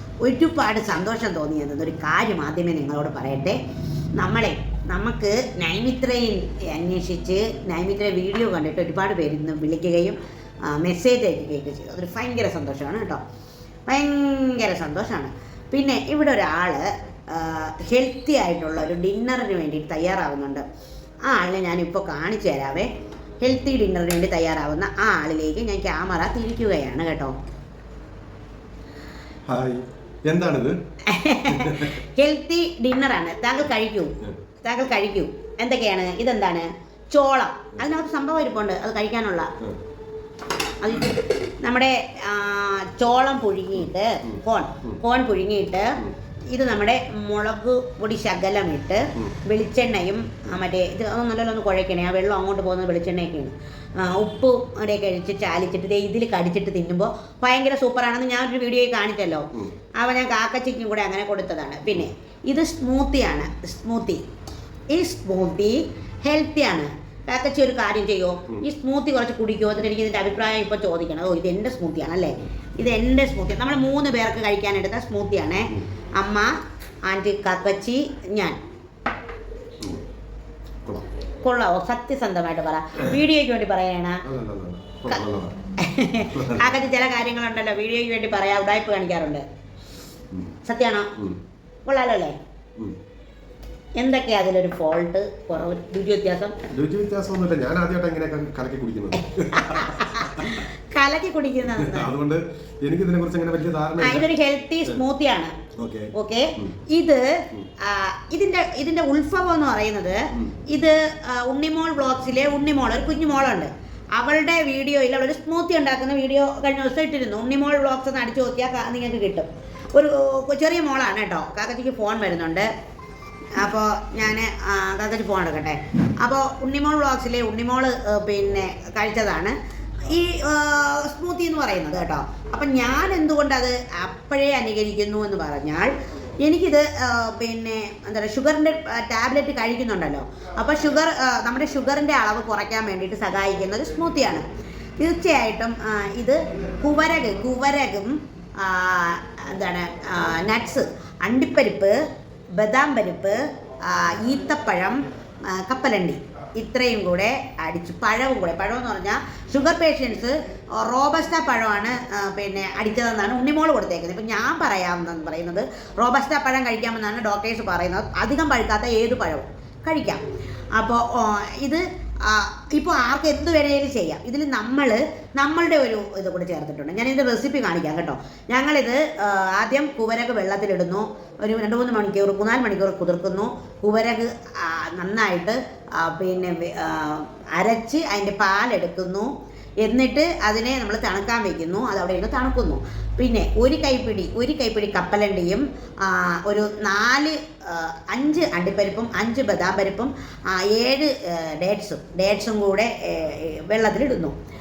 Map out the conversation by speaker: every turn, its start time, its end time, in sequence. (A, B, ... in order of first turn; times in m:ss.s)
0:00.2-0:03.6 A
0:04.2-0:13.2 A
0:13.9-0:20.6 A
0:21.2-0:22.9 A
0:23.4-0:27.3 A
0:29.5-0:30.8 B
0:31.0-0:39.5 A
0:31.4-0:32.0 B
0:40.8-0:46.0 A
0:44.2-0:45.0 B
0:46.5-1:04.2 A
1:04.9-1:16.5 A
1:17.0-1:18.6 A
1:21.4-1:24.2 A
1:24.2-1:25.6 B
1:25.8-1:29.4 A
1:26.3-1:26.7 B
1:30.6-1:31.1 A
1:31.8-1:32.4 A
1:34.0-1:36.5 A
1:36.7-1:40.6 B
1:39.5-1:42.1 A
1:41.7-1:44.3 B
1:44.0-1:45.5 A
1:45.8-1:46.7 B
1:46.1-2:02.7 A
2:03.5-2:24.4 A
2:25.0-2:32.0 A
2:32.6-2:50.2 A
2:50.8-3:24.3 A